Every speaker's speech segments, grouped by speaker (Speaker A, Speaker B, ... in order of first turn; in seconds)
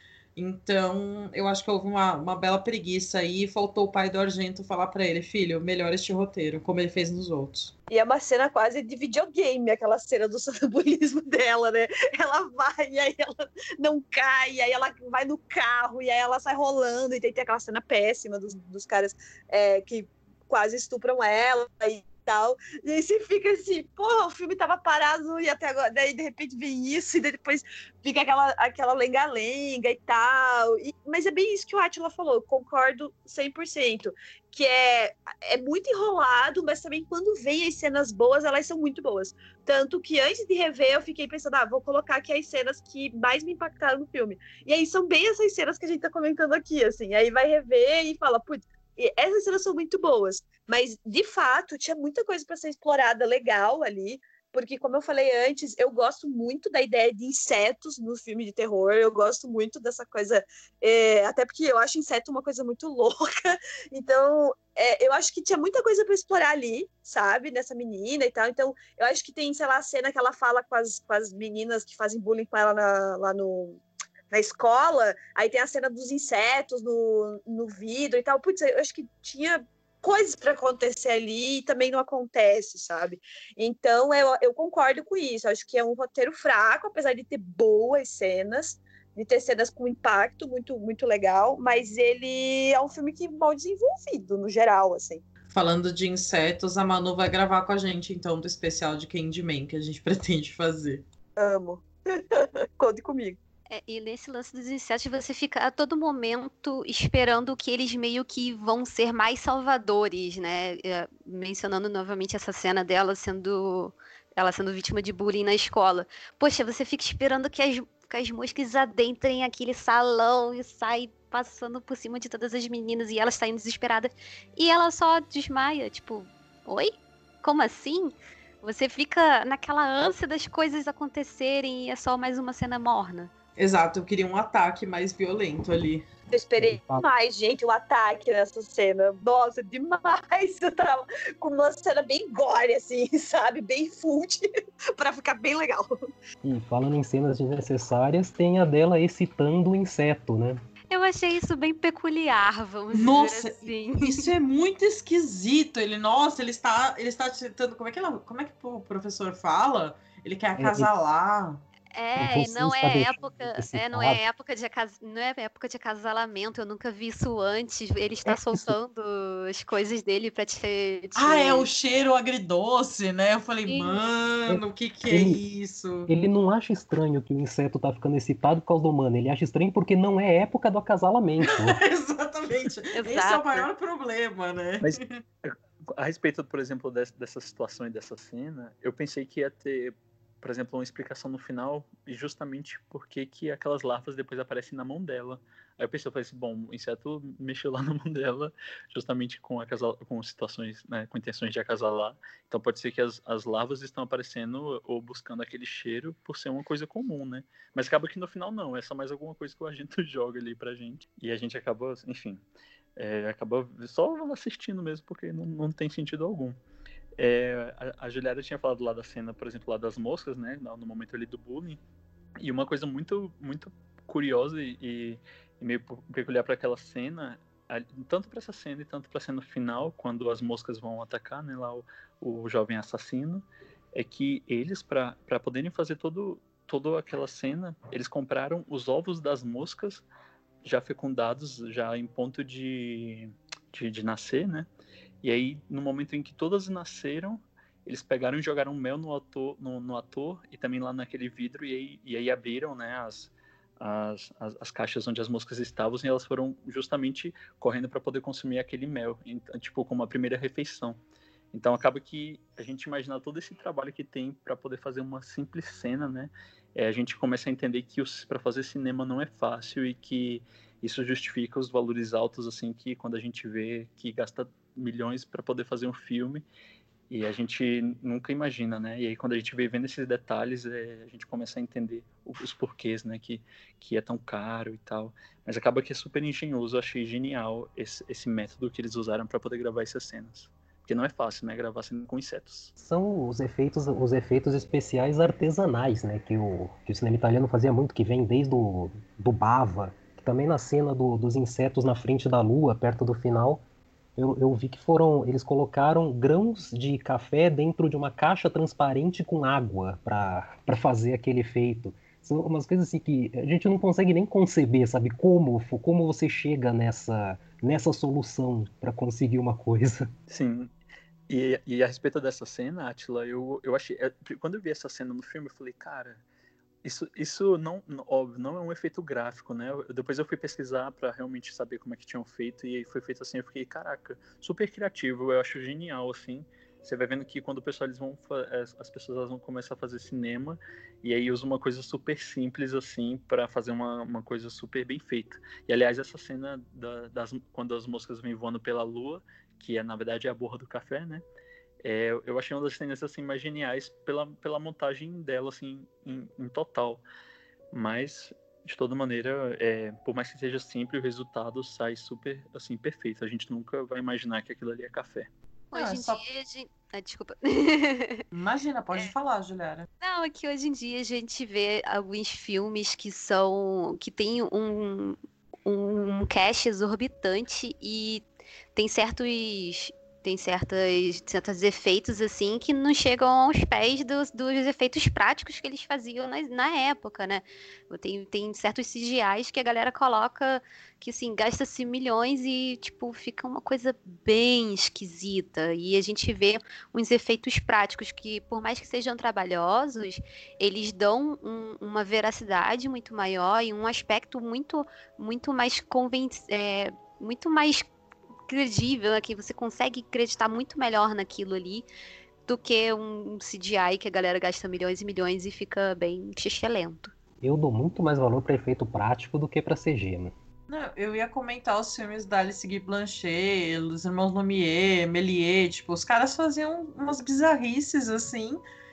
Speaker A: 0.3-7.7, 95.5-101.0, 133.6-136.1, 152.9-161.6, 171.2-176.1, 181.4-185.2, 365.7-366.2, 368.3-369.9, 420.7-428.6
Speaker B: 7.9-95.2, 101.4-103.4, 136.3-145.9
Speaker C: 103.7-133.3, 150.9-154.3, 161.9-171.7, 173.7-173.9, 182.9-183.7, 365.7-368.2, 370.0-407.9, 408.5-411.9, 412.4-417.1
Speaker D: 136.6-137.0, 146.4-150.6, 160.6-160.9, 162.2-164.2, 168.2-168.7, 174.5-175.4, 176.1-181.8, 292.8-303.6, 304.2-320.1, 417.4-420.3
Speaker E: 184.8-212.4, 213.0-216.6, 217.2-221.8, 222.4-240.0, 240.6-244.7, 245.2-261.0, 261.5-276.4, 277.1-292.7, 320.3-320.7, 321.3-326.2, 326.8-351.2, 351.8-357.0, 357.7-365.3